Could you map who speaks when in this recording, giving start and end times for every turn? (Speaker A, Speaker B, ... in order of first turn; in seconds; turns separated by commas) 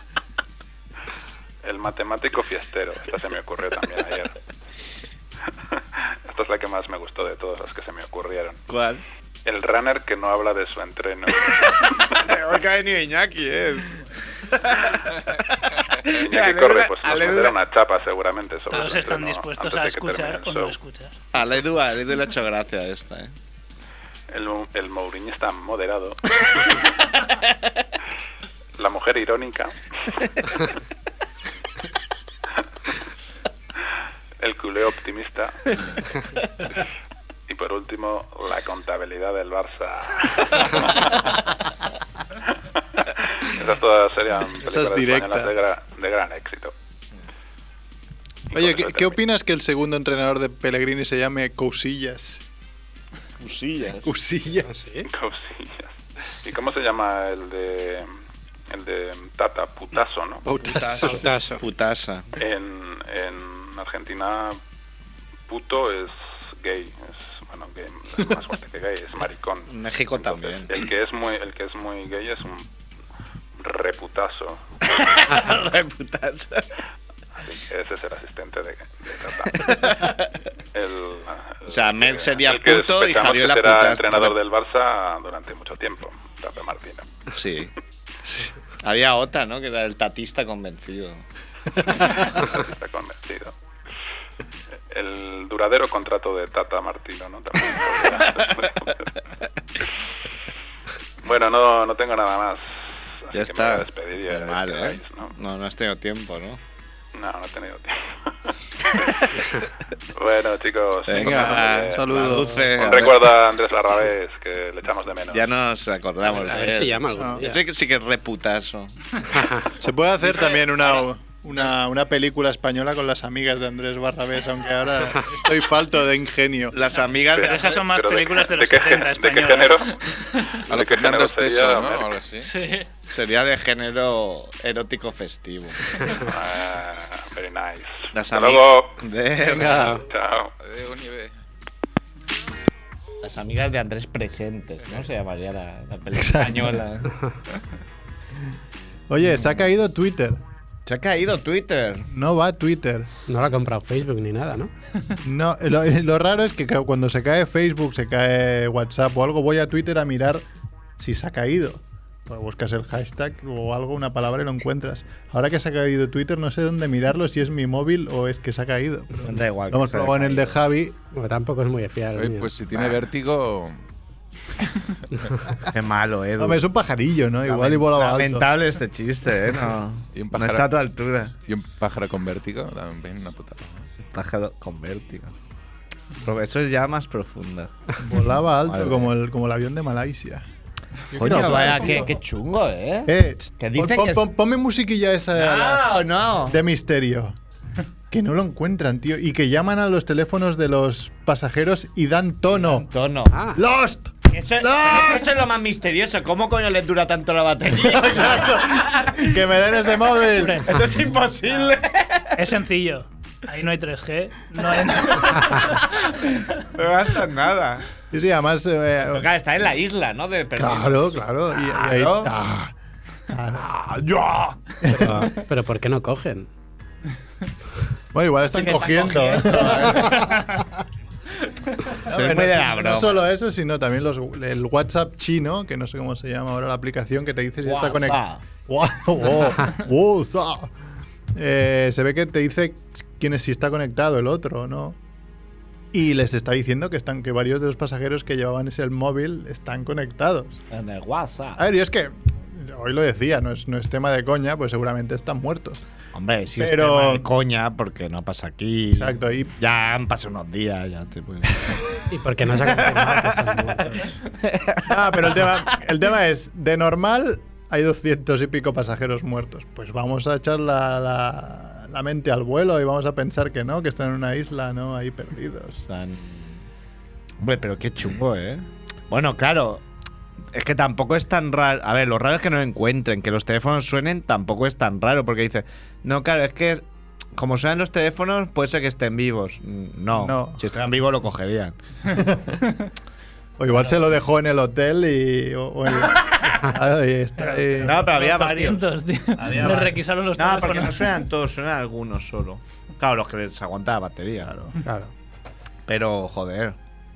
Speaker A: 1.6-4.4, Speaker A: 5.7-8.6, Speaker B: 8.7-9.0, Speaker A: 9.4-12.2, Speaker B: 11.7-17.6, Speaker A: 16.1-20.8, Speaker C: 18.7-21.2, Speaker B: 21.3-23.3, Speaker A: 24.3-26.9, Speaker A: 28.8-30.2, Speaker A: 34.4-35.8, Speaker A: 37.5-41.4, Speaker A: 43.0-46.7, Speaker D: 44.6-45.5, Speaker A: 48.5-49.2, Speaker D: 48.5-52.4, Speaker B: 53.4-54.1, Speaker D: 54.0-54.9, Speaker E: 54.7-55.1, Speaker A: 55.1-58.1, Speaker A: 58.7-60.5, Speaker D: 60.5-61.3, Speaker B: 60.6-62.3, Speaker E: 61.0-61.6, Speaker A: 62.4-64.6, Speaker A: 65.5-72.7, Speaker B: 69.7-70.7, Speaker A: 73.6-75.2, Speaker B: 74.9-76.7, Speaker A: 77.4-80.1, Speaker B: 79.5-80.4, Speaker A: 80.7-87.1, Speaker B: 81.7-84.4, Speaker B: 87.3-87.7, Speaker B: 88.3-91.2, Speaker A: 91.9-93.5, Speaker A: 94.9-99.1, Speaker A: 101.2-105.3, Speaker B: 103.3-106.6, Speaker A: 107.1-109.3, Speaker A: 110.1-115.5, Speaker B: 111.1-113.3, Speaker D: 111.1-112.7, Speaker B: 115.3-119.0, Speaker E: 116.3-117.6, Speaker D: 117.2-117.5, Speaker E: 119.4-119.7, Speaker D: 119.8-126.8, Speaker B: 126.7-127.8, Speaker A: 127.3-130.0, Speaker C: 127.4-130.6, Speaker A: 130.7-132.1, Speaker F: 130.7-132.5, Speaker C: 132.4-132.9, Speaker B: 133.1-136.0, Speaker A: 136.3-138.9, Speaker B: 138.1-140.0, Speaker D: 139.4-140.0, Speaker E: 139.7-140.0, Speaker A: 140.0-140.5, Speaker F: 140.6-141.3, Speaker B: 143.2-147.1, Speaker D: 146.2-146.8, Speaker D: 149.1-150.4, Speaker B: 150.9-152.1, Speaker D: 152.1-153.1, Speaker E: 153.3-154.7, Speaker D: 155.2-160.4, Speaker D: 161.0-171.0, Speaker B: 169.2-170.6, Speaker E: 171.1-172.6, Speaker F: 172.2-173.8, Speaker B: 175.7-176.6, Speaker D: 176.4-178.5, Speaker B: 177.4-181.3, Speaker F: 180.1-180.7, Speaker F: 181.5-183.9, Speaker B: 184.0-185.3, Speaker B: 186.2-187.9, Speaker D: 188.0-190.5, Speaker B: 188.6-189.1, Speaker D: 191.1-192.1, Speaker B: 191.1-194.3, Speaker D: 193.1-197.4, Speaker B: 195.4-196.6, Speaker D: 198.1-202.9, Speaker B: 202.5-203.4, Speaker E: 203.3-203.6, Speaker D: 203.6-205.3, Speaker B: 204.3-212.3, Speaker D: 207.7-210.7, Speaker C: 212.3-216.0, Speaker B: 215.1-217.8, Speaker D: 218.1-219.3, Speaker B: 219.1-222.3, Speaker D: 220.6-222.7, Speaker D: 223.3-223.7, Speaker B: 223.5-224.8, Speaker D: 224.8-225.3, Speaker E: 224.9-226.5, Speaker D: 228.1-230.6, Speaker B: 228.5-230.4, Speaker B: 232.0-233.2, Speaker D: 232.1-240.7, Speaker B: 237.6-238.4, Speaker D: 241.3-245.0, Speaker D: 245.9-250.6, Speaker B: 250.7-251.6, Speaker D: 251.6-255.8, Speaker B: 256.1-261.9, Speaker D: 256.6-257.3, Speaker D: 258.9-259.5, Speaker E: 262.1-264.1, Speaker B: 262.7-263.4, Speaker B: 264.3-265.8, Speaker D: 264.9-275.8, Speaker B: 275.9-276.6, Speaker B: 277.4-279.8, Speaker B: 280.5-286.8, Speaker B: 287.4-291.8, Speaker D: 290.1-290.6, Speaker D: 292.1-292.6, Speaker D: 293.6-298.0, Speaker B: 296.1-296.6, Speaker C: 297.4-301.2, Speaker B: 297.8-304.5, Speaker D: 304.4-304.8, Speaker E: 304.9-305.1, Speaker B: 305.9-306.8